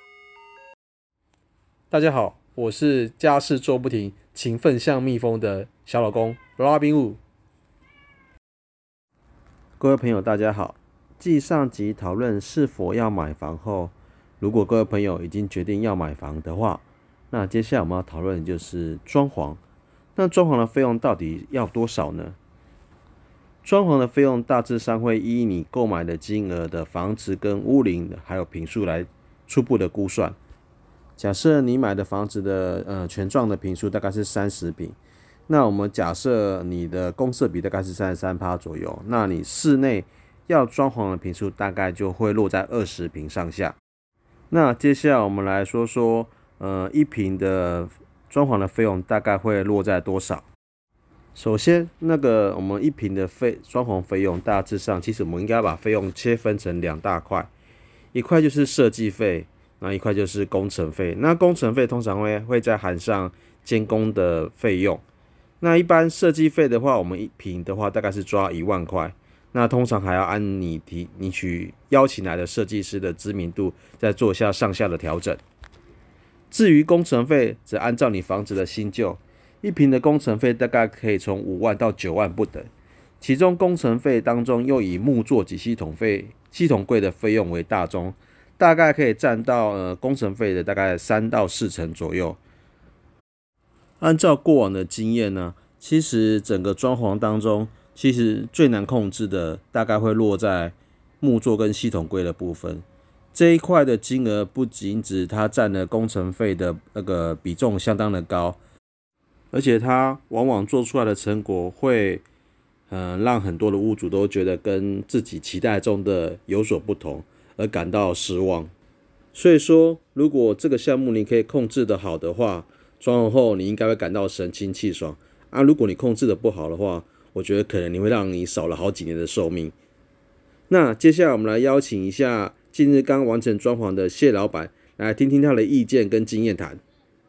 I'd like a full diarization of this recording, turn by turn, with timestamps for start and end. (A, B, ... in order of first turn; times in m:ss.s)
0:01.9-0:07.2 A
0:09.8-0:19.6 A
0:20.2-0:22.4 A
0:23.6-0:30.4 A
0:31.2-0:35.0 A
0:35.5-0:43.8 A
0:44.5-0:50.4 A
0:51.4-0:57.5 A
0:58.1-1:05.0 A
1:05.6-1:15.4 A
1:16.5-1:22.7 A
1:23.2-1:32.4 A
1:34.0-1:48.6 A
1:49.5-1:52.2 A
1:52.9-1:58.7 A
1:59.3-2:09.7 A
2:10.7-2:16.8 A